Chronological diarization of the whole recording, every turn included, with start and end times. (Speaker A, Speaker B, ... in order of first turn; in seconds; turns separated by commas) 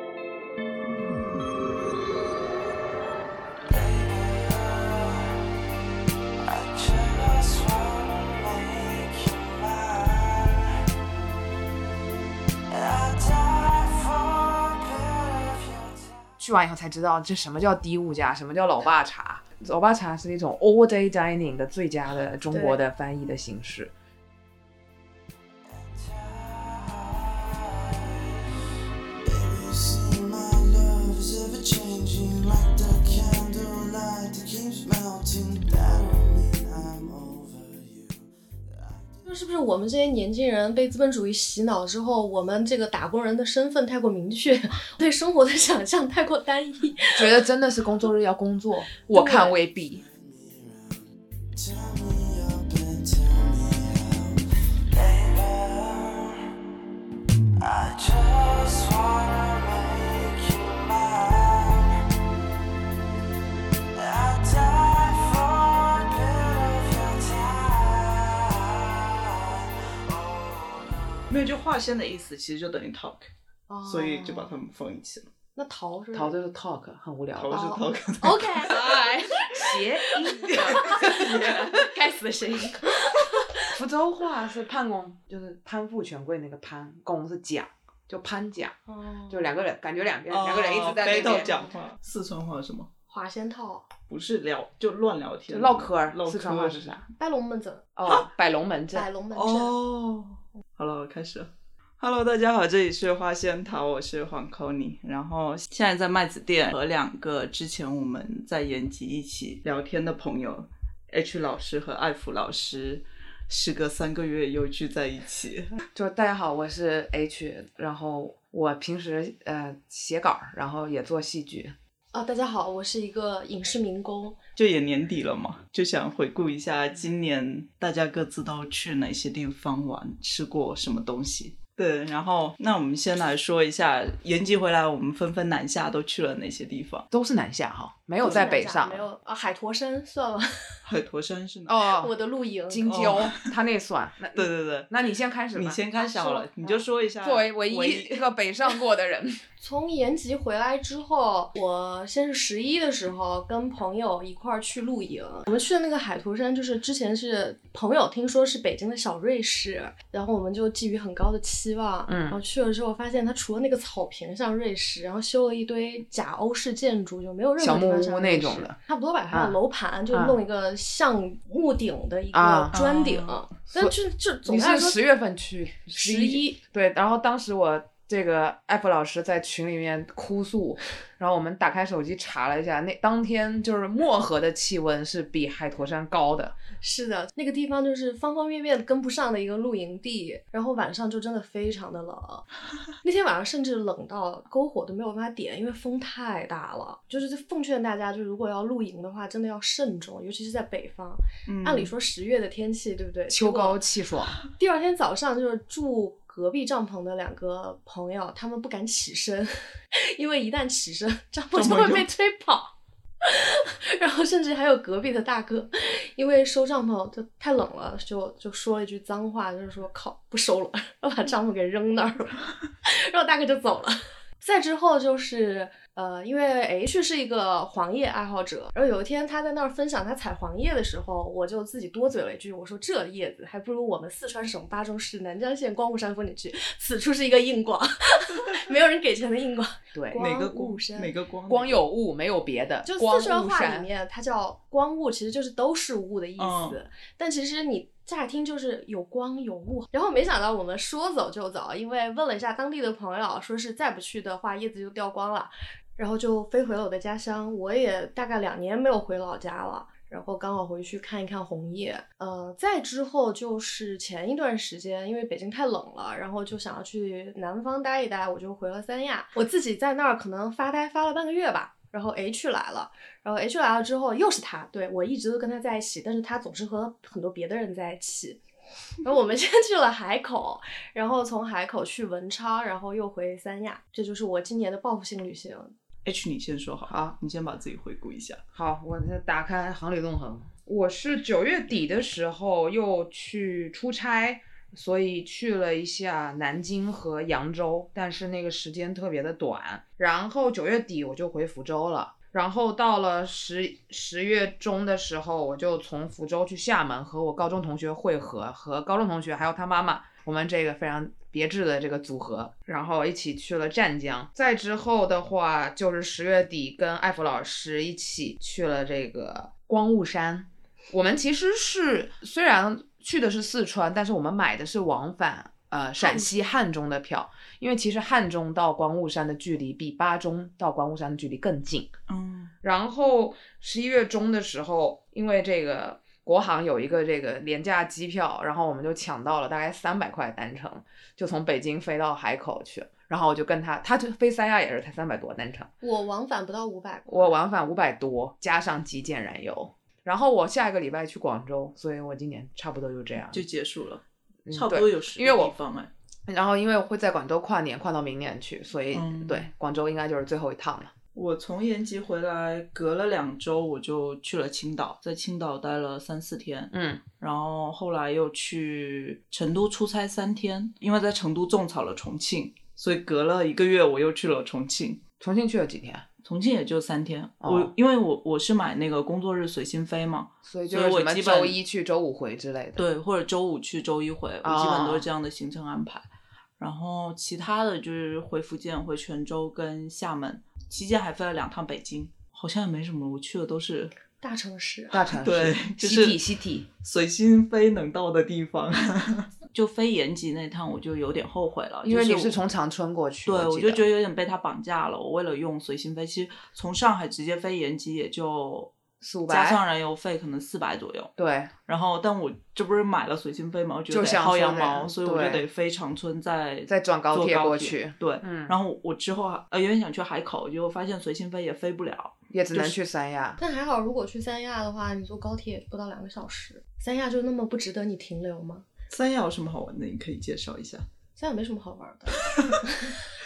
Speaker A: 3.7-5.4, Speaker A: 6.4-10.8, Speaker A: 12.7-16.3, Speaker B: 16.4-23.9, Speaker C: 22.5-22.8, Speaker A: 25.6-28.4, Speaker A: 29.2-39.2, Speaker C: 39.2-47.5, Speaker B: 47.1-50.0, Speaker C: 49.1-49.6, Speaker A: 49.8-56.5, Speaker A: 57.6-62.1, Speaker A: 63.9-71.2, Speaker D: 71.3-73.3, Speaker C: 73.7-74.6, Speaker D: 73.8-75.3, Speaker C: 75.6-76.4, Speaker B: 76.1-82.8, Speaker D: 77.4-78.9, Speaker C: 77.5-78.9, Speaker C: 80.0-83.8, Speaker D: 80.5-81.9, Speaker B: 83.7-88.7, Speaker C: 88.9-89.6, Speaker B: 89.3-91.6, Speaker D: 90.3-92.9, Speaker C: 91.3-91.8, Speaker C: 93.1-93.9, Speaker D: 94.1-97.0, Speaker B: 95.5-97.1, Speaker C: 97.2-97.9, Speaker B: 98.0-99.1, Speaker C: 98.9-99.8, Speaker D: 99.3-115.7, Speaker B: 115.9-121.8, Speaker C: 122.1-124.4, Speaker D: 124.6-137.1, Speaker B: 137.1-139.1, Speaker C: 138.2-140.8, Speaker D: 138.2-138.5, Speaker D: 140.8-141.8, Speaker B: 141.7-142.1, Speaker C: 141.9-142.9, Speaker B: 142.7-145.8, Speaker D: 142.8-143.5, Speaker D: 144.3-144.9, Speaker D: 145.5-148.2, Speaker C: 145.9-146.9, Speaker B: 147.2-149.4, Speaker C: 149.6-175.0, Speaker B: 162.1-162.4, Speaker B: 167.6-168.8, Speaker B: 169.3-169.6, Speaker B: 170.1-170.4, Speaker B: 172.3-172.8, Speaker D: 172.7-173.4, Speaker B: 174.5-186.6, Speaker C: 175.9-176.6, Speaker C: 186.8-192.4, Speaker C: 193.0-203.8, Speaker D: 201.5-201.9, Speaker B: 203.3-204.4, Speaker C: 204.5-241.1, Speaker D: 211.6-212.1, Speaker B: 239.9-240.2, Speaker D: 240.2-241.8, Speaker B: 241.5-243.9, Speaker C: 242.8-278.4, Speaker D: 246.4-246.8, Speaker C: 279.0-285.7, Speaker D: 286.1-288.4, Speaker B: 286.9-287.2, Speaker B: 288.6-331.9, Speaker C: 326.0-326.3, Speaker D: 332.1-332.5, Speaker B: 332.6-345.7, Speaker C: 345.8-347.4, Speaker B: 347.1-353.4, Speaker D: 353.3-355.9, Speaker B: 354.5-355.5, Speaker B: 356.3-360.9, Speaker D: 358.9-359.5, Speaker D: 361.1-375.0, Speaker B: 366.7-367.0, Speaker B: 375.2-376.1, Speaker D: 376.2-381.6, Speaker B: 377.4-377.7, Speaker B: 380.5-382.9, Speaker D: 382.8-386.1, Speaker B: 384.4-385.1, Speaker D: 386.6-393.9, Speaker C: 394.2-395.1, Speaker B: 394.9-396.7, Speaker D: 395.2-396.2, Speaker D: 396.8-402.4, Speaker B: 401.9-403.9, Speaker D: 403.3-408.7, Speaker B: 409.0-409.6, Speaker D: 409.3-411.1, Speaker B: 411.2-411.5, Speaker D: 411.7-422.8, Speaker B: 413.9-415.4, Speaker B: 416.7-418.6, Speaker B: 422.3-423.4, Speaker C: 423.4-428.7, Speaker D: 428.9-430.9, Speaker C: 431.2-433.1